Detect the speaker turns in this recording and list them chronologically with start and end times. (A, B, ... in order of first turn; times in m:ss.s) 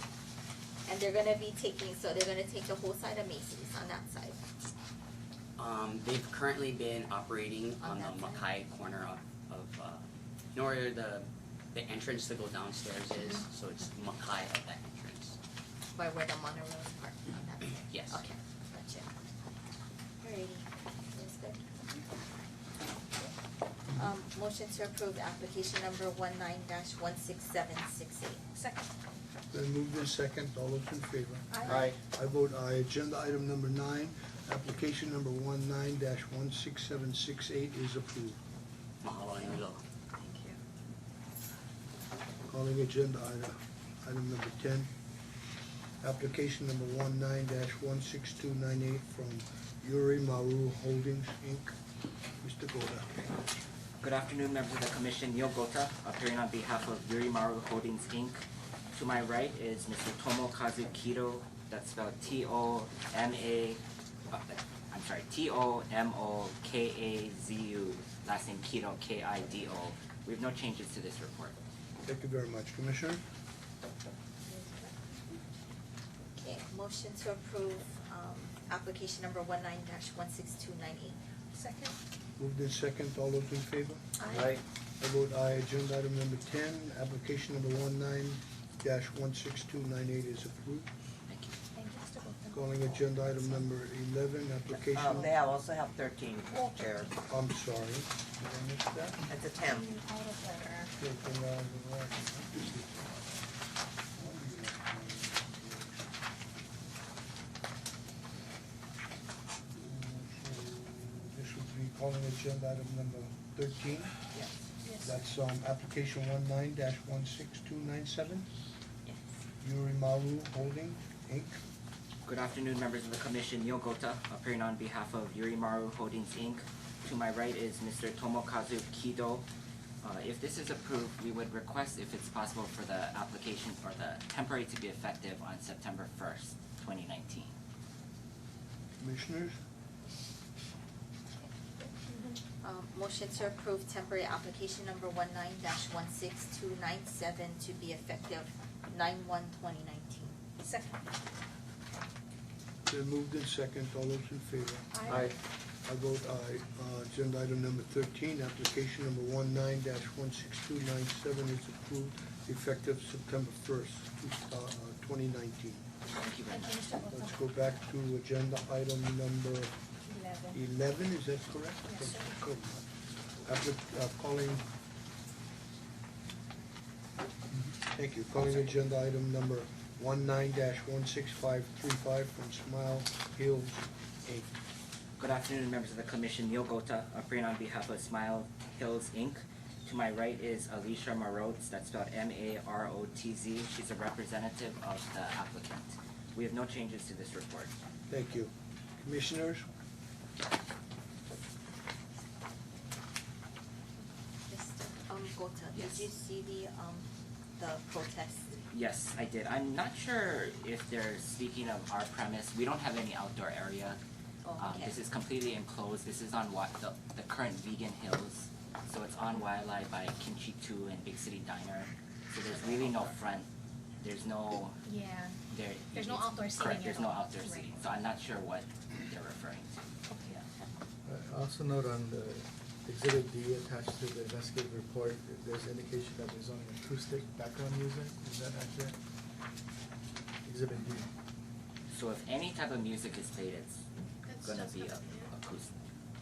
0:00.9-0:04.4 A
0:05.6-0:15.4 B
0:07.8-0:08.5 A
0:15.9-0:19.1 A
0:17.9-0:18.2 B
0:20.2-0:22.0 A
0:23.9-0:28.4 A
0:28.6-0:28.9 C
0:29.5-0:38.4 D
0:31.5-0:31.9 C
0:39.0-0:39.8 B
0:40.2-0:40.5 A
0:42.5-0:44.9 D
0:46.0-0:51.8 D
0:52.4-0:53.4 D
0:54.0-0:58.4 E
0:59.0-1:11.6 E
1:12.0-1:13.2 D
1:14.5-1:15.4 C
1:16.4-1:21.2 A
1:21.5-1:22.0 C
1:22.4-1:24.0 D
1:24.2-1:24.6 C
1:25.0-1:30.9 D
1:31.3-1:31.6 E
1:31.8-1:33.5 C
1:32.5-1:35.3 D
1:35.2-1:36.9 F
1:37.3-1:39.2 D
1:39.3-1:39.8 F
1:39.6-1:40.9 C
1:41.0-1:43.2 D
1:44.2-1:46.1 D
1:49.8-1:54.1 D
1:54.8-1:55.2 C
1:55.0-1:58.5 D
1:59.6-2:01.6 D
2:02.2-2:09.5 E
2:10.0-2:17.5 E
2:19.0-2:19.6 D
2:22.1-2:22.4 C
2:22.6-2:30.4 A
2:30.6-2:31.0 C
2:32.9-2:35.2 D
2:34.9-2:35.3 C
2:35.8-2:45.8 D
2:46.1-2:46.9 E
2:46.4-2:47.8 C
2:47.1-2:49.7 D
2:50.1-2:50.6 C
2:50.5-2:52.9 D
2:51.9-2:52.4 C
2:53.4-2:54.6 D
2:57.5-3:04.5 D
3:05.2-3:17.7 E
3:18.1-3:19.6 D
3:24.5-3:28.6 A
3:25.7-3:26.1 E
3:28.7-3:34.0 E
3:34.4-3:35.0 A
3:34.6-3:43.5 E
3:44.0-3:44.9 E
3:44.8-3:45.4 C
3:45.5-3:50.4 E
3:45.9-3:47.7 C
3:50.1-3:50.4 C
3:51.0-3:59.0 G
4:00.4-4:01.1 G
4:01.9-4:03.8 E
4:04.3-4:05.3 C
4:04.4-4:05.8 E